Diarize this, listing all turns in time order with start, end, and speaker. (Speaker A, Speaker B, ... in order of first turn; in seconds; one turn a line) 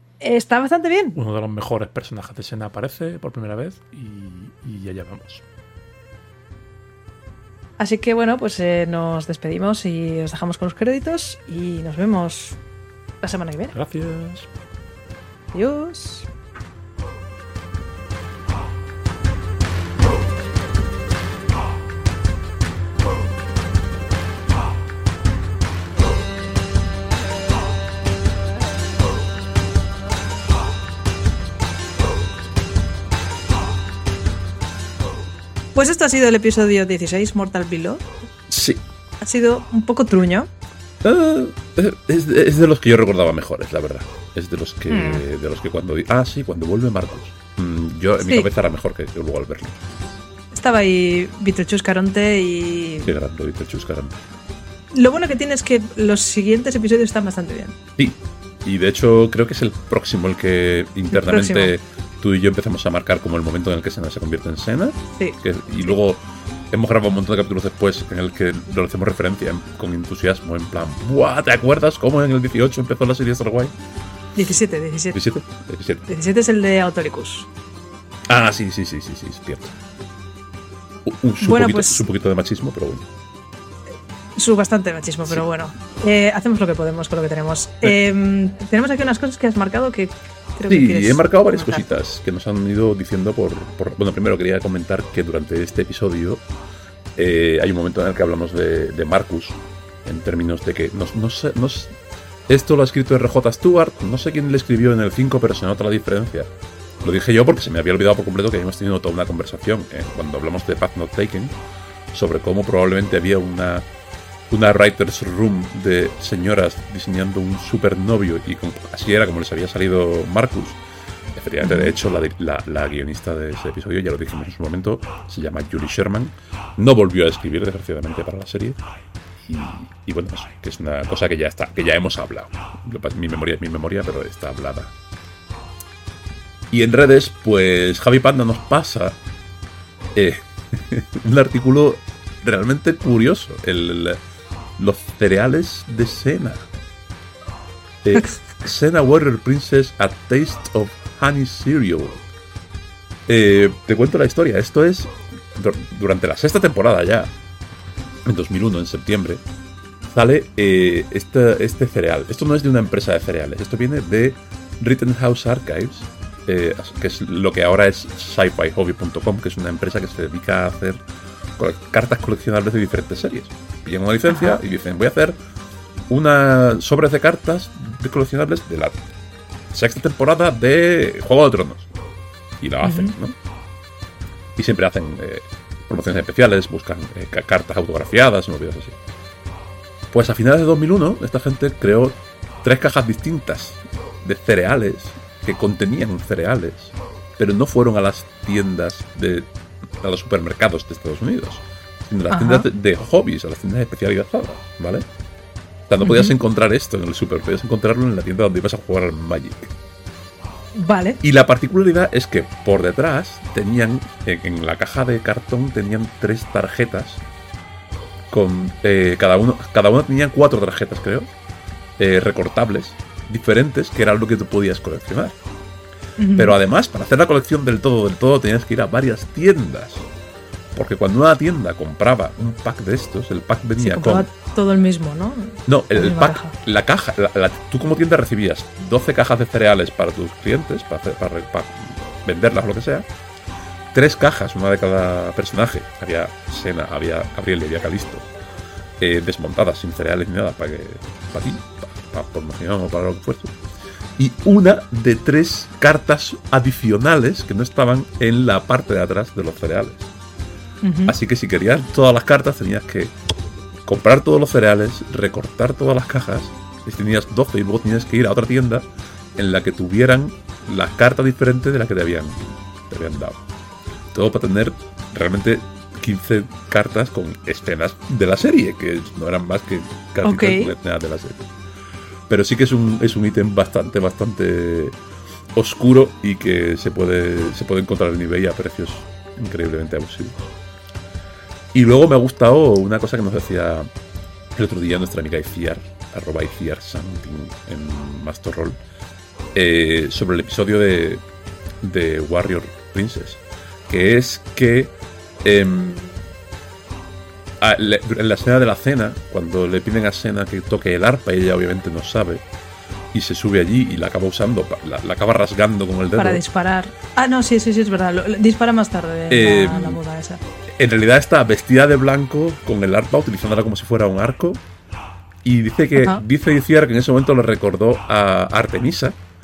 Speaker A: 0.2-1.2
Speaker B: 1.1-5.4
Speaker A: 7.8-12.6
Speaker A: 13.2-13.7
Speaker B: 13.7-14.5
Speaker A: 15.5-16.3
Speaker A: 35.7-38.0
Speaker C: 38.5-38.8
Speaker A: 39.2-40.5
Speaker C: 41.0-49.8
Speaker A: 44.9-45.2
Speaker A: 48.2-48.5
Speaker A: 50.5-53.1
Speaker C: 53.0-54.2
Speaker A: 54.9-57.7
Speaker C: 58.0-73.7
Speaker A: 61.1-61.7
Speaker A: 65.1-65.4
Speaker A: 74.3-75.2
Speaker C: 75.1-76.0
Speaker A: 76.1-77.5
Speaker C: 78.3-79.7
Speaker C: 81.0-83.1
Speaker A: 81.4-82.0
Speaker A: 84.3-91.8
Speaker C: 90.7-96.4
Speaker C: 97.2-101.9
Speaker C: 102.5-106.5
Speaker C: 107.0-111.5
Speaker C: 112.1-113.8
Speaker C: 114.5-120.8
Speaker C: 121.3-128.8
Speaker A: 121.6-121.9
Speaker C: 129.4-134.9
Speaker C: 136.7-139.2
Speaker C: 140.1-144.2
Speaker C: 144.8-146.7
Speaker C: 148.0-152.2
Speaker C: 153.3-157.3
Speaker C: 158.2-159.4
Speaker C: 160.1-171.0
Speaker C: 171.6-175.4
Speaker A: 174.3-174.6
Speaker C: 176.1-179.0
Speaker C: 179.7-181.9
Speaker C: 182.6-183.3
Speaker A: 182.8-183.1
Speaker C: 184.6-189.0
Speaker C: 190.1-205.0
Speaker A: 202.3-202.7
Speaker C: 205.9-209.7
Speaker A: 206.0-206.3
Speaker A: 210.8-211.2
Speaker C: 211.2-217.2
Speaker C: 218.3-221.3
Speaker C: 222.0-225.3
Speaker A: 226.2-226.6
Speaker C: 226.4-230.0
Speaker C: 230.7-234.3
Speaker A: 233.8-236.5
Speaker C: 235.7-243.1
Speaker C: 243.9-248.3
Speaker C: 249.0-253.6
Speaker C: 254.2-260.1
Speaker A: 260.8-261.1
Speaker C: 261.1-263.1
Speaker C: 263.9-273.4
Speaker C: 274.1-281.5
Speaker A: 280.2-280.7
Speaker C: 282.3-284.9
Speaker C: 285.5-290.5
Speaker C: 291.7-293.9
Speaker C: 294.5-298.8
Speaker C: 299.5-301.2
Speaker C: 301.8-306.2
Speaker C: 307.6-312.4
Speaker C: 313.1-316.4
Speaker A: 316.1-320.4
Speaker C: 319.3-320.0
Speaker C: 320.8-324.6
Speaker C: 325.4-329.2
Speaker A: 326.0-326.2